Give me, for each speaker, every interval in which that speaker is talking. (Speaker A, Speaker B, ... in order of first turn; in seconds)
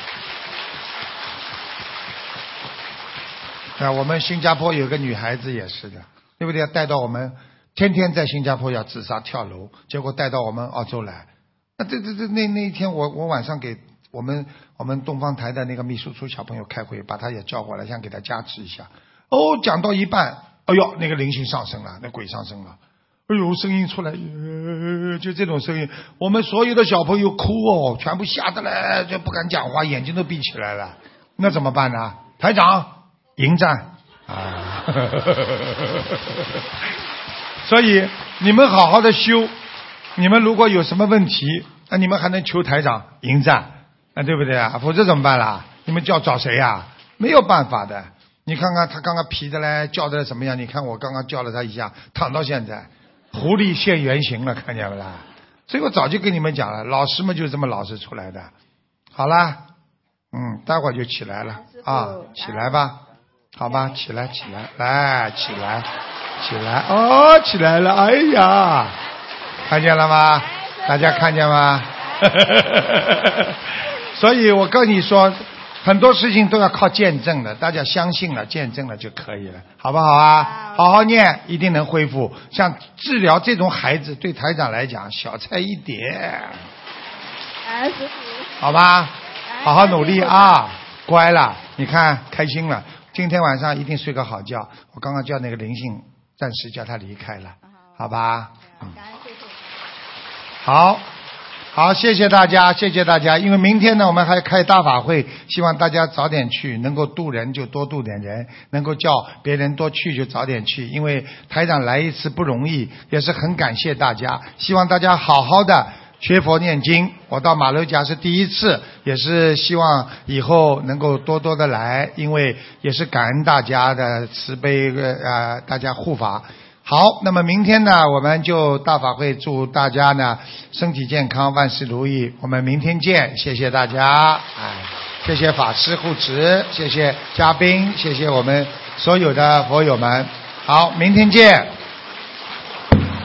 Speaker A: 3.8-36.2, 37.6-39.5, 40.2-58.5, 59.1-59.7, 60.3-63.0, 63.6-65.9, 66.4-69.0, 69.6-86.7, 88.6-98.9, 100.6-101.1, 101.7-141.7
Speaker B: 61.5-62.9, 63.6-64.0, 70.2-71.4, 72.0-72.5, 80.4-80.8, 87.6-88.6, 89.5-90.7, 98.6-99.7